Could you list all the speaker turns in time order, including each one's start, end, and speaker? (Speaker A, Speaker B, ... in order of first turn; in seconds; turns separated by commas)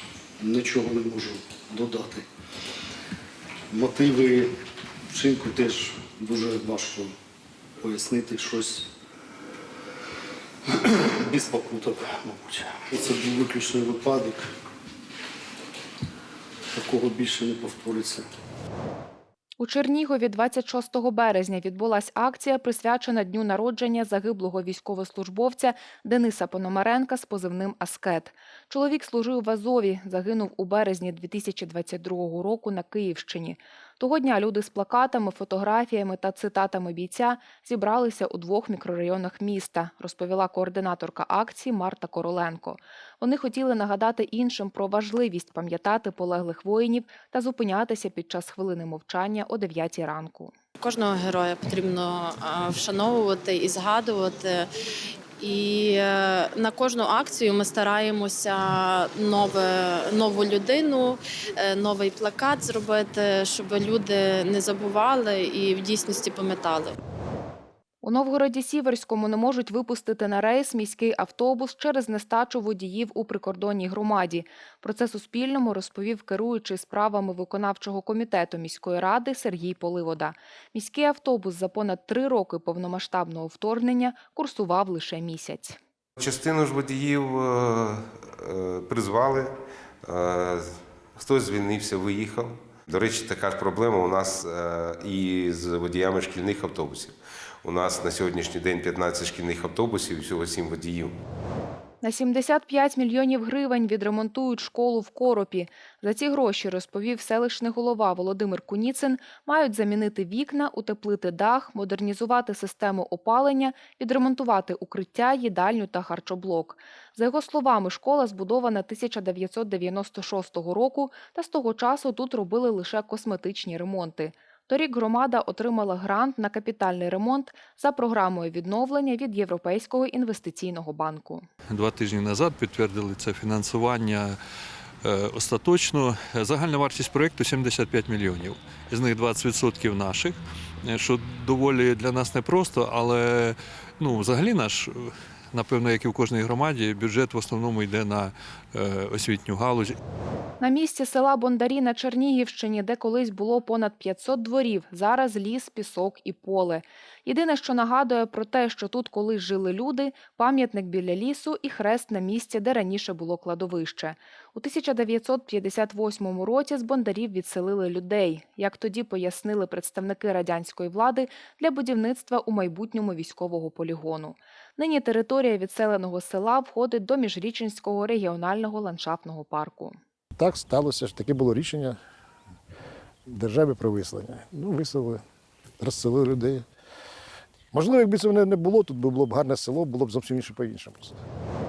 Speaker A: 0.4-2.3, Speaker A: 3.7-4.5, Speaker A: 5.1-7.1, Speaker A: 7.8-8.9, Speaker A: 10.7-14.5, Speaker A: 16.7-18.3, Speaker B: 19.6-50.5, Speaker C: 50.8-54.7, Speaker C: 55.4-67.0, Speaker B: 68.0-85.8, Speaker D: 86.2-101.1, Speaker B: 102.0-131.5, Speaker E: 131.7-134.4, Speaker E: 135.0-150.0, Speaker B: 150.6-180.0, Speaker F: 180.4-182.0, Speaker F: 183.3-185.2, Speaker F: 185.8-186.7, Speaker F: 187.7-191.2